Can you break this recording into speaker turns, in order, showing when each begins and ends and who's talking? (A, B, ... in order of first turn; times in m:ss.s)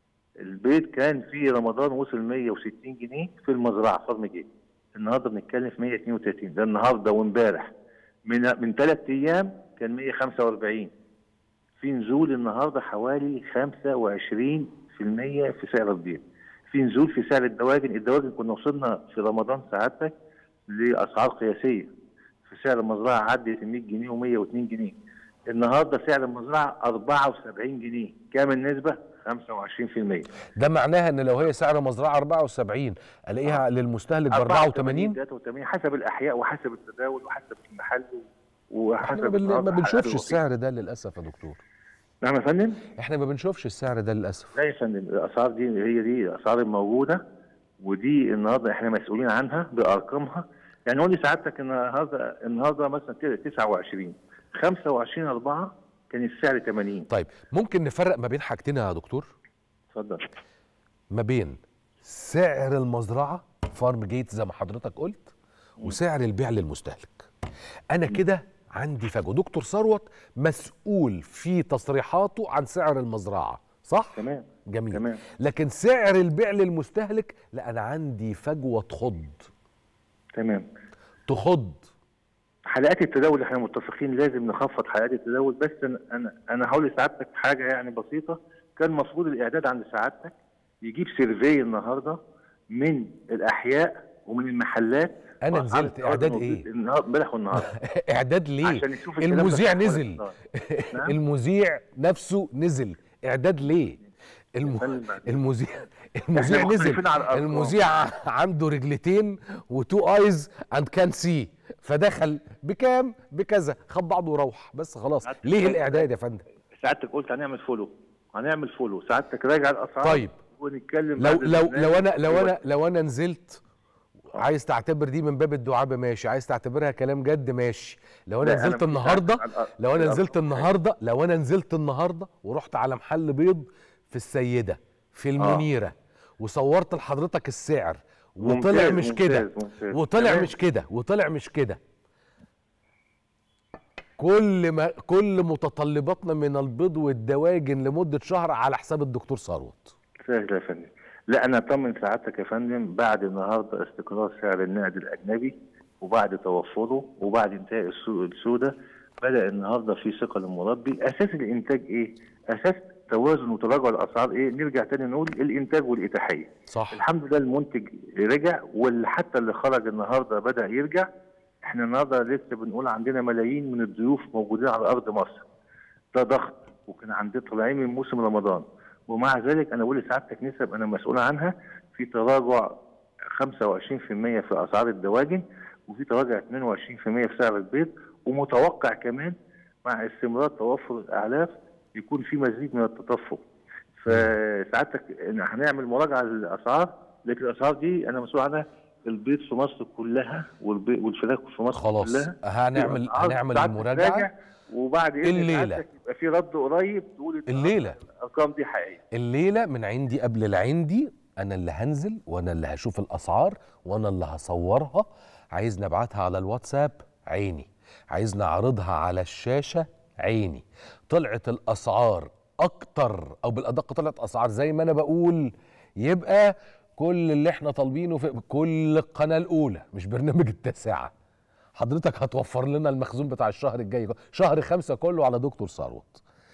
0:00.4-0:07.7 A
0:08.2-0:10.9 A
0:11.8-0:20.1 A
0:20.7-0:21.9 A
0:22.5-0:25.0 A
0:25.5-0:30.3 A
0:30.6-0:35.2 B
0:34.3-0:40.4 A
0:39.0-0:41.6 B
0:42.2-0:42.8 A
0:43.0-0:44.5 B
0:44.5-0:47.2 A
0:47.8-0:57.1 A
0:57.1-0:59.3 B
0:59.9-1:00.3 A
1:01.1-1:07.3 B
1:07.9-1:19.5 B
1:14.2-1:15.2 A
1:20.4-1:20.6 A
1:21.3-1:21.9 B
1:22.7-1:32.2 A
1:32.7-1:37.7 A
1:35.4-1:36.6 B
1:37.6-1:44.0 B
1:38.6-1:40.3 A
1:44.6-1:56.4 B
1:44.6-1:45.4 A
1:46.4-1:47.8 A
1:55.2-1:56.1 A
1:56.8-2:02.6 A
2:00.0-2:00.4 B
2:01.2-2:03.6 B
2:04.3-2:21.8 B
2:08.4-2:10.7 A
2:15.4-2:15.6 A
2:18.4-2:20.5 A
2:24.2-2:29.9 B
2:30.3-2:51.0 A
2:46.7-2:47.0 B
2:51.6-2:55.5 A
2:56.1-3:02.7 A
3:03.3-3:09.3 A
3:09.8-3:13.4 A
3:14.0-3:29.0 A
3:21.7-3:24.3 B
3:25.2-3:25.8 B
3:27.5-3:28.0 B
3:29.1-3:51.1 B
3:51.7-3:56.2 B